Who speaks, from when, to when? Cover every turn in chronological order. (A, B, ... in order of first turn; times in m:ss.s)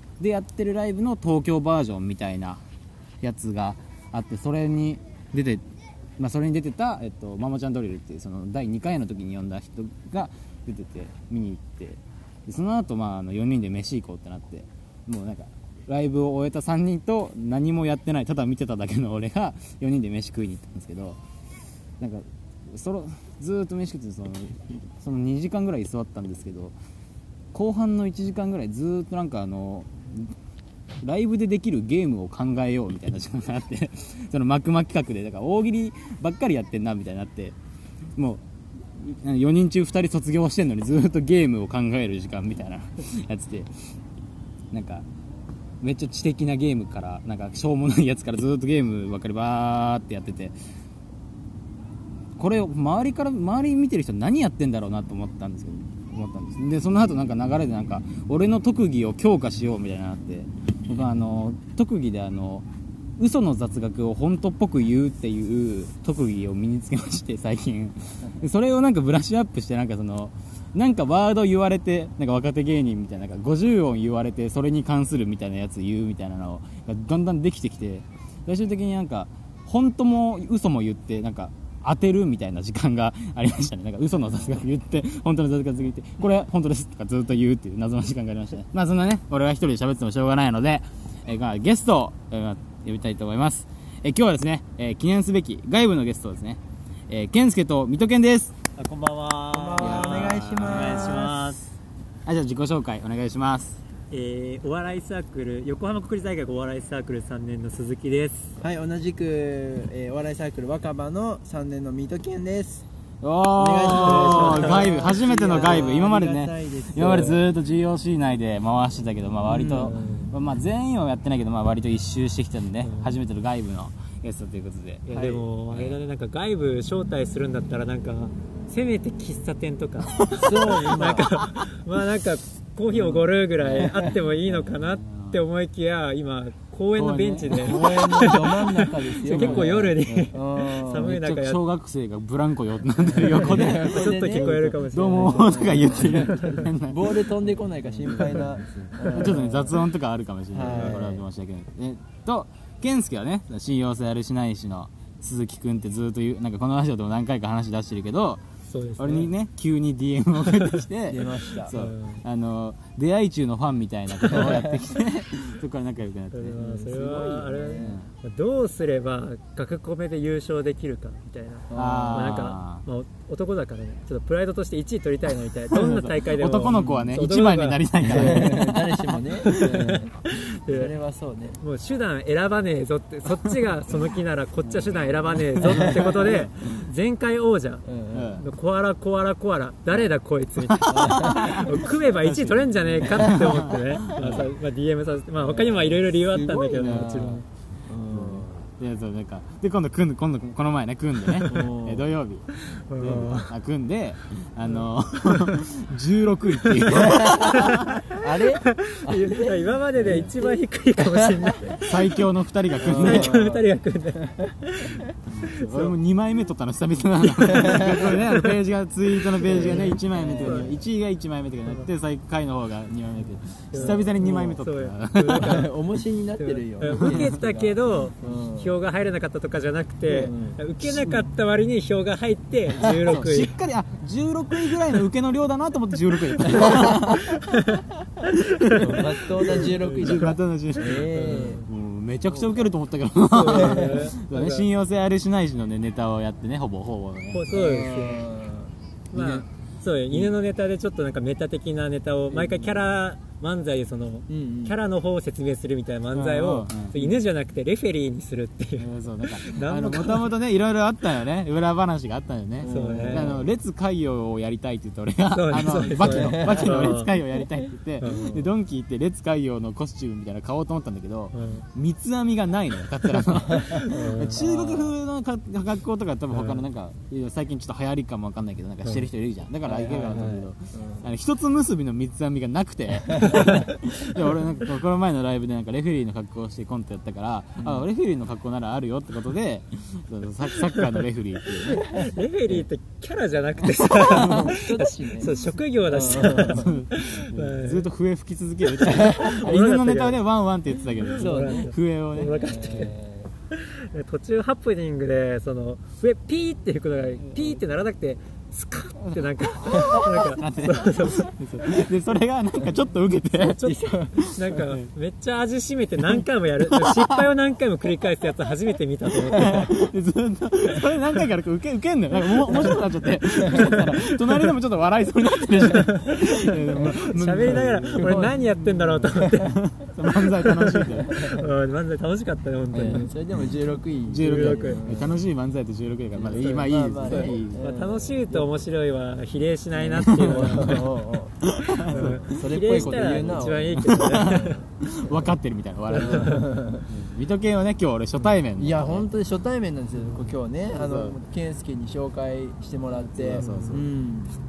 0:00.2-0:02.6 A
0:03.2-0:05.6 A
0:06.2-0:21.2 A
0:22.0-0:26.7 A
0:27.5-0:30.3 A
0:31.0-0:37.6 A
0:38.2-0:43.7 A
0:44.7-0:45.0 A
0:45.8-0:50.5 A
0:52.4-1:02.6 A
1:03.2-1:38.6 A
1:38.8-1:41.7 B
1:39.5-1:41.4 C
1:39.8-1:41.6 A
1:42.2-1:43.8 A
1:44.1-1:48.6 B
1:48.6-1:52.8 C
1:53.2-2:05.0 A
1:53.6-1:57.4 C
1:53.9-1:54.9 B
1:59.5-2:00.3 B
2:02.8-2:03.2 B
2:05.1-2:21.6 B
2:05.1-2:05.5 C
2:05.7-2:06.0 A
2:10.3-2:11.2 C
2:13.1-2:15.4 A
2:17.0-2:18.0 A
2:17.5-2:21.1 C
2:19.3-2:20.3 A
2:21.0-2:27.3 A
2:23.0-2:29.8 C
2:23.3-2:26.7 B
2:28.0-2:28.4 A
2:29.1-2:38.4 A
2:30.5-2:31.2 C
2:30.7-2:31.0 B
2:38.7-2:39.3 B
2:39.0-2:46.6 A
2:40.4-2:40.9 B
2:41.1-2:41.8 C
2:41.7-2:42.2 B
2:46.3-2:58.6 B
2:46.6-2:48.0 C
2:47.8-2:48.1 A
2:51.7-2:52.3 C
2:51.7-2:52.8 A
2:55.7-2:59.1 A
2:56.8-2:57.1 C
2:58.0-3:01.6 C
2:59.4-3:01.0 B
3:01.6-3:07.8 B
3:04.6-3:06.8 A
3:07.9-3:08.4 C
3:08.1-3:08.5 A
3:08.4-3:17.4 B
3:10.6-3:14.5 A
3:10.9-3:11.8 C
3:15.4-3:18.7 C
3:16.7-3:17.4 A
3:18.1-3:27.8 A
3:21.5-3:22.2 C
3:22.5-3:23.5 B
3:24.7-3:25.6 B
3:26.7-3:32.2 B
3:27.0-3:31.7 C
3:30.0-3:30.3 A
3:31.8-3:33.4 A
3:32.8-3:33.7 C
3:32.8-3:35.9 B
3:35.2-3:45.7 A
3:37.5-3:38.1 C
3:39.4-3:40.7 B
3:39.4-3:40.8 C
3:43.7-3:45.7 B
3:43.8-3:44.6 C
3:45.3-3:48.8 C
3:46.4-3:53.5 B
3:46.9-3:47.2 A
3:50.1-3:50.6 C
3:50.8-3:51.3 A
3:52.8-3:57.5 A
3:56.7-3:57.8 B
3:58.6-4:01.7 B
3:58.6-4:07.4 A
3:58.8-4:01.6 C
4:03.3-4:04.7 B
4:07.3-4:08.2 B
4:07.5-4:09.4 C
4:09.1-4:20.3 B
4:12.3-4:12.8 C
4:14.3-4:14.8 C
4:16.1-4:16.9 A
4:18.8-4:51.8 A
4:22.6-4:23.5 C
4:22.6-4:23.4 B
4:25.3-4:27.1 B
4:26.0-4:26.9 C
4:28.0-4:28.4 B
4:28.1-4:28.4 C
4:31.3-4:31.6 B
4:33.8-4:34.8 B
4:36.3-4:36.6 B
4:38.8-4:39.1 B
4:39.6-4:41.0 C
4:47.6-4:47.8 C
4:51.7-4:57.9 B
4:53.8-4:54.5 A
4:54.3-4:56.7 C
4:56.0-5:02.9 A
4:58.8-5:00.2 B
5:01.0-5:02.9 B
5:01.2-5:03.3 C
5:03.5-5:11.8 B
5:07.2-5:07.6 A
5:09.1-5:13.6 A
5:13.4-5:19.7 B
5:13.6-5:14.3 C
5:14.2-5:14.8 A
5:16.1-5:17.2 A
5:19.2-5:31.3 A
5:22.5-5:22.8 B
5:23.5-5:24.4 B
5:25.6-5:29.6 B
5:27.4-5:28.5 C
5:30.1-5:33.1 B
5:32.7-5:33.1 A
5:32.7-5:35.2 C
5:34.1-5:37.6 A
5:34.1-5:34.8 B
5:36.1-5:38.5 C
5:37.0-5:40.9 B
5:39.7-5:44.6 C
5:40.0-5:40.8 A
5:41.4-5:49.1 A
5:41.8-5:44.6 B
5:45.9-5:46.9 C
5:45.9-5:46.4 B
5:48.6-5:54.4 C
5:50.7-5:51.2 A
5:52.9-5:53.9 A
5:53.3-5:53.8 B